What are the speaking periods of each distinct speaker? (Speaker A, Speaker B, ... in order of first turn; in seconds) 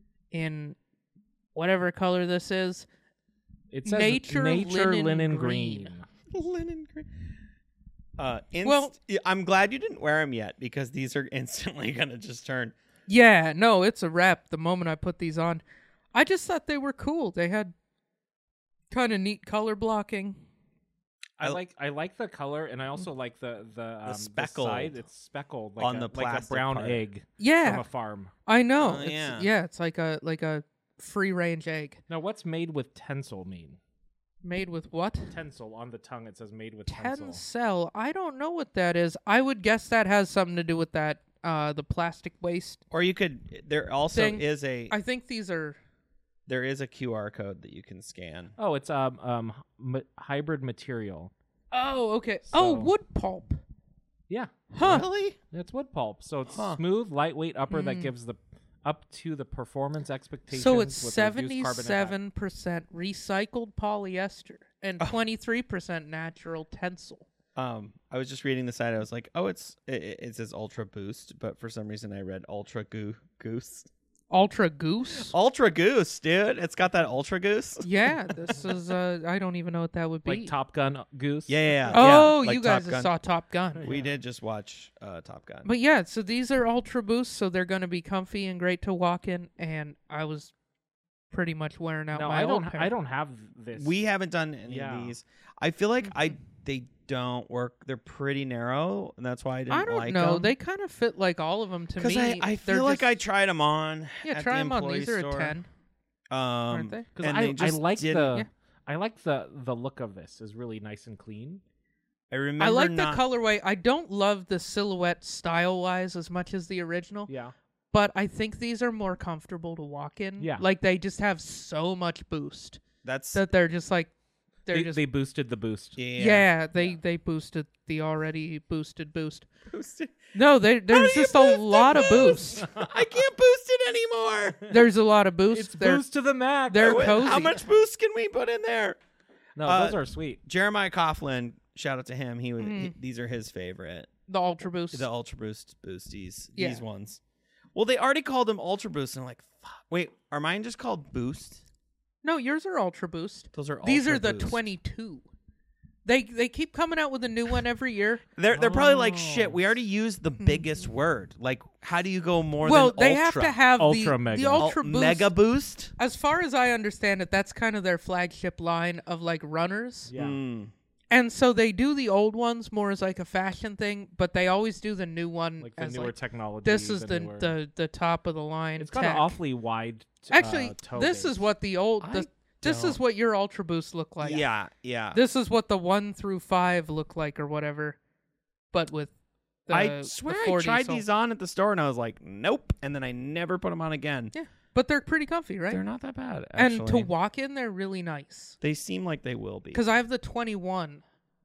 Speaker A: 0.3-0.8, 1.5-2.9, 3.8-5.9, 8.6-8.9, 13.1-15.6, 16.1-17.7, 18.9-20.4, 27.4-27.8, 28.4-32.0, 34.4-35.3, 36.9-42.8, 44.1-45.8, 51.7-53.6, 54.7-55.0, 57.7-58.1, 60.5-67.2, 74.3-75.3, 77.8-80.5, 81.9-83.8, 85.6-90.5, 91.3-92.9, 99.7-103.2, 104.2-105.7, 106.7-107.0, 112.6-117.3, 117.9-122.8, 123.3-124.1, 124.7-125.0, 126.2-129.5, 130.3-132.7, 134.7-136.0, 136.7-137.6, 142.6-142.9, 144.3-145.1, 146.6-146.8, 152.2-155.2, 156.0-158.2, 160.4-160.6, 162.6-165.3, 166.0-170.1, 171.1-179.3, 180.3-184.4, 185.1-188.0, 188.7-189.1, 189.7-191.0, 194.3-195.8, 196.5-198.6, 199.7-201.0
Speaker B: 3.7-6.0, 21.4-28.3, 32.1-33.8, 35.3-37.4, 48.6-51.3, 52.5-52.9, 54.3-54.7, 55.5-62.2, 80.2-82.1, 83.8-84.1, 92.1-94.0, 94.7-95.1, 107.2-111.6, 117.3-117.5, 120.4-120.6, 124.7-126.0, 132.6-132.9, 135.5-137.2, 139.6-140.4, 158.5-159.6, 163.8-164.7, 170.1-170.4, 175.6-177.5, 178.8-181.4
Speaker C: 6.3-7.1, 8.2-12.7, 24.0-24.9, 25.8-27.0, 28.8-29.5, 42.9-44.9, 46.5-48.5, 54.8-55.4, 56.5-56.8, 67.5-73.9, 75.2-77.9, 81.5-83.1, 83.8-85.7, 93.8-100.5, 102.0-105.6, 106.3-108.4, 112.3-113.2, 123.0-123.4, 126.0-126.5, 129.7-130.3, 130.9-134.7, 136.8-139.0, 139.6-144.1, 144.9-147.2, 147.7-151.6, 153.5-154.6, 158.3-163.6, 164.6-165.9, 170.1-170.7, 182.0-183.0, 184.2-185.2, 189.7-194.3, 195.7-197.1, 198.6-199.8